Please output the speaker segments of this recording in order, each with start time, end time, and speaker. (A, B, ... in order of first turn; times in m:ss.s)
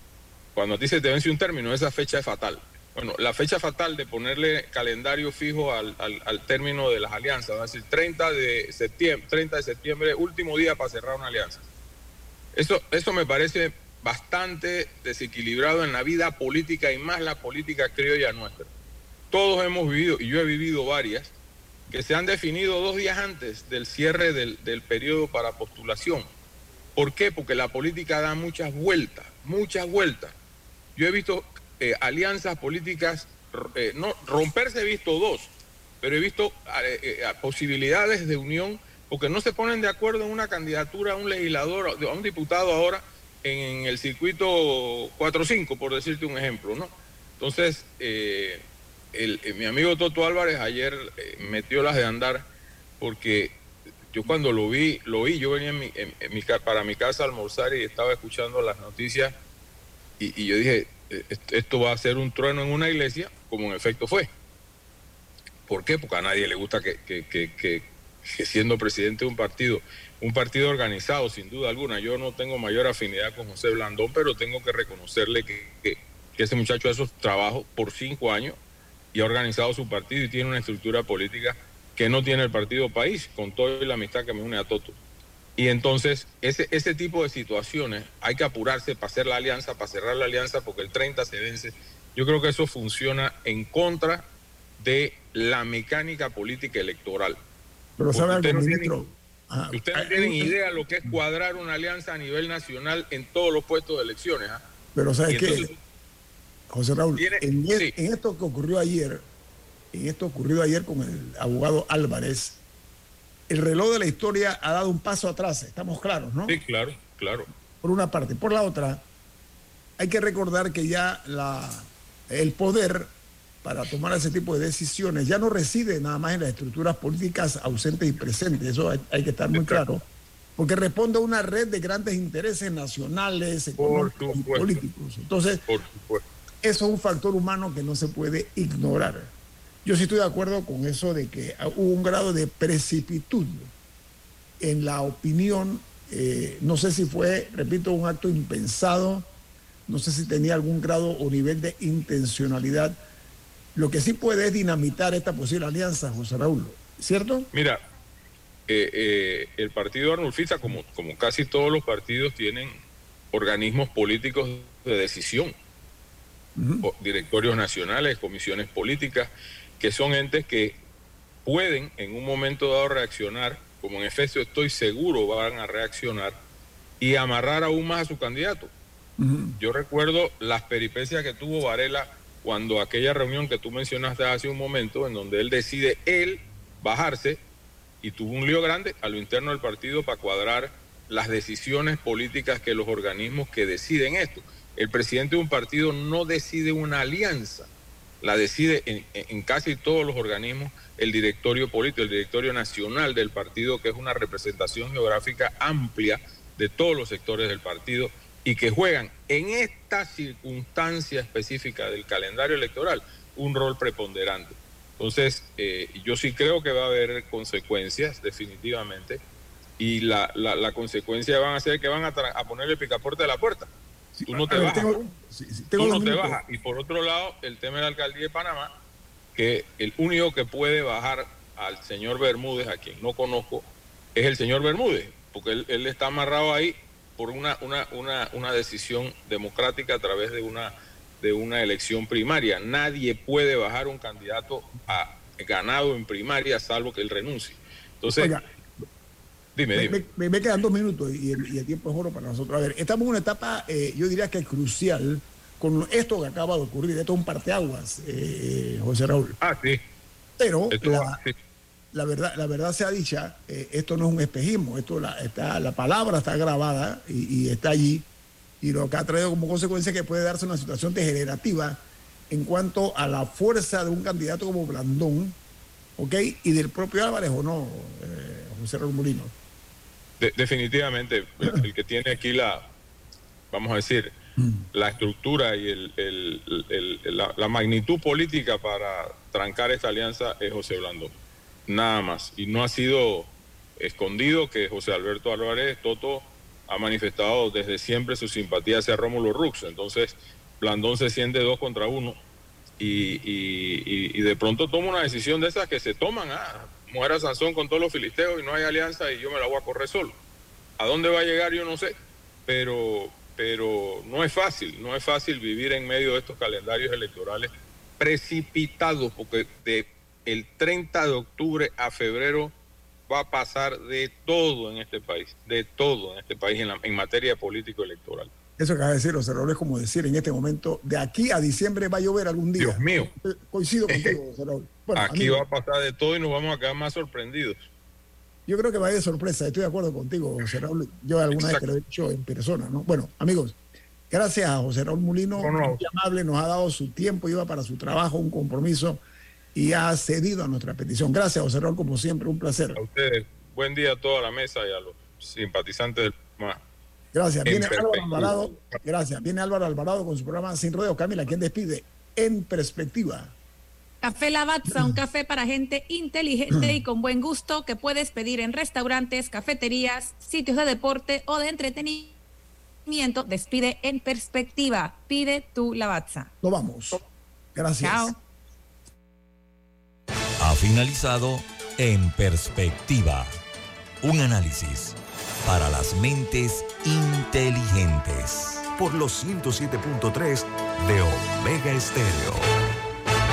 0:00.6-0:11.6 A
0:12.5-0:18.7 A
0:19.3-0:21.3 A
0:21.9-0:26.3 A
0:27.0-0:30.3 A
0:31.0-0:52.4 A
0:53.0-0:53.6 A
0:54.1-0:59.3 A
1:00.2-1:04.3 A
1:05.7-1:18.6 A
1:19.1-1:25.0 A
1:25.6-1:34.2 A
1:34.8-1:37.4 A
1:38.0-1:41.2 B
1:38.1-1:39.0 A
1:39.7-1:44.6 A
1:44.9-1:45.7 B
1:45.3-1:45.8 A
1:46.7-1:49.2 B
1:47.2-1:47.9 A
1:49.9-1:52.6 B
1:53.5-1:56.6 B
1:56.5-1:57.5 A
1:57.8-1:59.0 B
2:00.0-2:03.1 B
2:03.6-2:10.0 B
2:09.5-2:09.8 A
2:10.6-2:15.6 B
2:13.8-2:14.8 A
2:15.7-2:16.2 A
2:16.6-2:19.3 B
2:19.8-2:23.7 B
2:24.6-2:29.3 B
2:29.9-2:33.0 B
2:33.7-2:37.5 B
2:37.5-2:37.8 A
2:38.7-2:42.7 A
2:43.3-2:45.5 A
2:46.6-2:46.9 B
2:46.8-2:50.8 A
2:51.4-2:56.3 A
2:57.0-2:58.7 A
2:59.2-2:59.6 B
2:59.6-3:07.4 A
3:08.0-3:17.7 A
3:18.2-3:39.2 A
3:39.8-3:43.7 A
3:44.2-3:46.4 B
3:44.3-3:45.0 A
3:45.8-3:48.7 A
3:49.3-4:08.4 A
4:08.0-4:08.4 B
4:09.6-4:10.0 A
4:09.7-4:19.4 B
4:19.4-4:19.8 A
4:20.4-4:21.2 B
4:20.7-4:21.3 A
4:21.9-4:28.1 B
4:28.6-4:35.4 B
4:36.0-4:39.3 B
4:40.2-4:42.6 A
4:43.5-4:44.1 A
4:44.4-4:44.6 B
4:44.7-4:51.1 A
4:51.7-5:02.2 A
5:02.8-5:10.2 A
5:10.8-5:11.9 A
5:12.5-5:22.5 A
5:23.1-5:28.3 A
5:28.6-5:35.5 B
5:32.6-5:33.1 A
5:33.9-5:34.2 A
5:35.0-5:37.6 A
5:38.5-5:43.6 B
5:41.3-5:41.6 A
5:44.1-5:49.0 B
5:45.4-5:45.8 A
5:49.5-5:52.8 B
5:52.7-5:56.6 A
5:57.1-6:03.3 B
5:57.4-5:58.6 A
6:04.0-6:12.1 C
6:06.5-6:06.8 B
6:12.9-6:16.3 C
6:16.4-6:17.0 B
6:17.5-6:18.1 B
6:17.8-6:18.2 C
6:20.4-6:23.4 D
6:24.0-6:28.6 D
6:28.8-6:32.6 E